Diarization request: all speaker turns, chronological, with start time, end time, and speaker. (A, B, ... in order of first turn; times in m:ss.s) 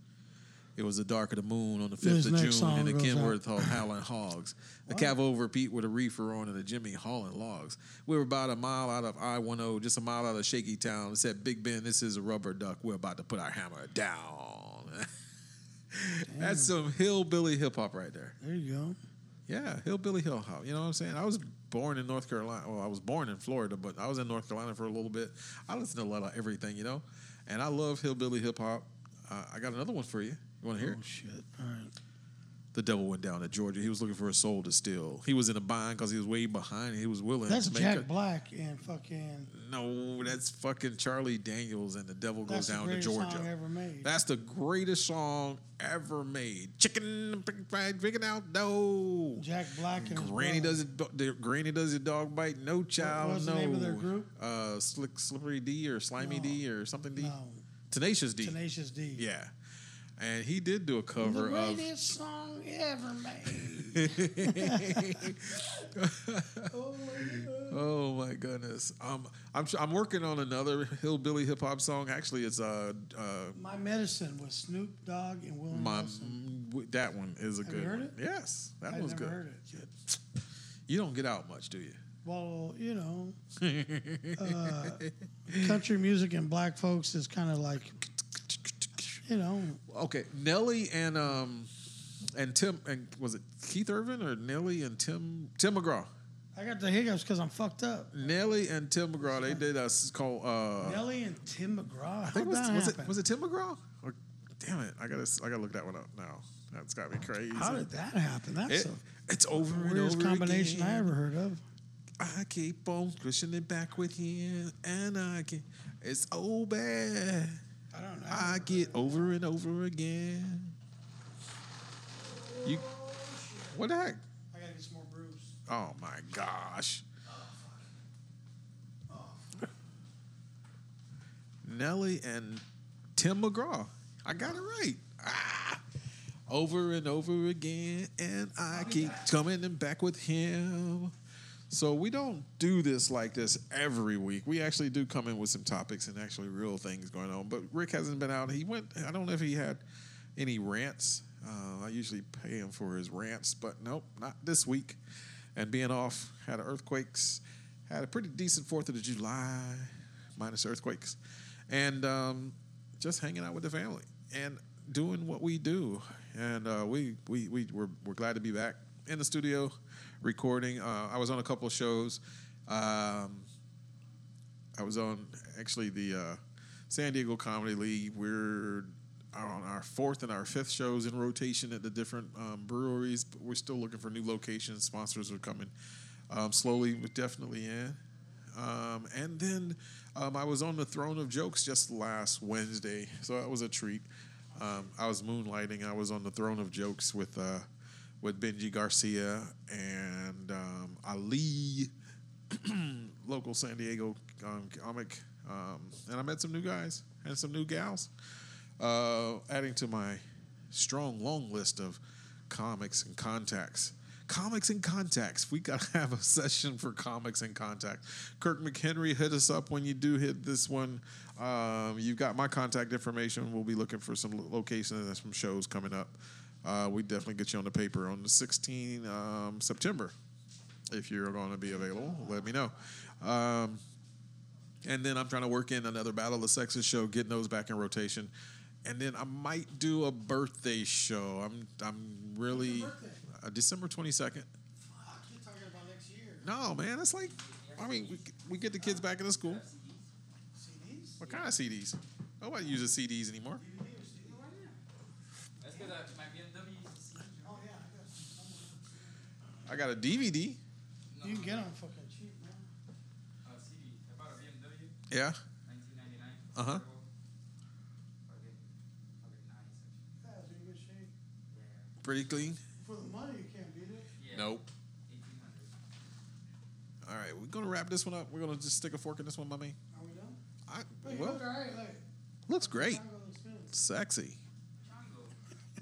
0:00.8-0:15.1 A
0:02.0-0:03.8 B
0:04.9-0:05.1 B
0:15.9-0:18.3 A
0:16.2-0:16.7 B
0:18.4-0:19.0 B
0:19.5-0:31.0 A
0:30.8-0:31.9 B
0:32.7-0:38.1 A
0:37.5-0:39.5 B
0:39.5-0:43.5 A
0:42.4-0:44.1 B
0:44.0-0:57.3 A
0:49.4-0:50.8 B
0:53.0-0:54.3 B
0:56.2-0:56.6 B
0:57.2-0:57.6 B
0:57.9-0:58.6 A
0:58.4-0:59.2 B
0:59.2-0:59.5 A
1:00.2-1:01.9 A
1:01.2-1:05.6 B
1:03.5-1:13.6 A
1:06.7-1:07.8 B
1:13.5-1:16.4 B
1:15.7-1:20.2 A
1:17.6-1:18.1 B
1:18.9-1:19.8 B
1:20.9-1:22.0 A
1:22.2-1:23.4 B
1:23.6-1:25.8 A
1:24.4-1:28.0 B
1:28.5-1:28.9 A
1:29.2-1:29.8 B
1:29.9-1:31.7 A
1:32.3-1:36.1 A
1:36.5-1:38.3 B
1:38.1-1:41.0 A
1:39.2-1:39.6 B
1:40.8-1:43.2 B
1:42.2-1:47.9 A
1:47.5-1:49.0 B
1:48.7-1:51.1 A
1:49.6-1:51.6 B
1:52.2-1:57.6 A
1:57.9-1:59.4 B
1:58.3-2:00.8 A
2:02.5-2:03.8 B
2:03.7-2:04.2 A
2:04.5-2:05.6 B
2:05.7-2:07.0 A
2:07.3-2:07.8 B
2:09.1-2:09.4 B
2:11.6-2:12.6 A
2:13.2-2:15.8 A
2:16.5-2:21.1 A
2:21.7-2:29.8 A
2:30.4-2:35.0 A
2:35.6-2:41.2 A
2:41.7-2:53.5 A
2:54.8-3:05.7 A
3:06.3-3:08.0 A
3:08.5-3:17.6 A
3:18.2-3:21.9 A
3:22.5-3:28.1 A
3:28.8-3:50.1 A
3:50.9-3:53.8 A
3:54.8-3:58.3 A
3:58.8-4:04.5 A
4:02.5-4:03.2 B
4:04.9-4:06.4 B
4:06.4-4:09.6 A
4:07.3-4:10.1 C
4:10.5-4:11.2 B
4:11.2-4:13.6 A
4:13.5-4:14.8 B
4:15.6-4:17.6 C
4:17.4-4:19.3 B
4:19.6-4:20.6 A
4:21.1-4:21.6 C
4:21.2-4:22.7 B
4:23.4-4:24.9 C
4:25.1-4:25.4 A
4:25.6-4:27.1 C
4:26.5-4:26.8 A
4:28.2-4:28.6 C
4:29.2-4:30.0 C
4:30.2-4:31.1 B
4:31.5-4:31.9 C
4:32.0-4:32.6 A
4:32.8-4:34.1 B
4:34.2-4:35.7 C
4:34.3-4:34.7 A
4:37.0-4:39.8 A
4:39.9-4:40.4 B
4:40.7-4:41.4 A
4:41.0-4:43.7 B
4:42.5-4:43.0 A
4:43.7-4:44.4 A
4:44.8-4:45.4 C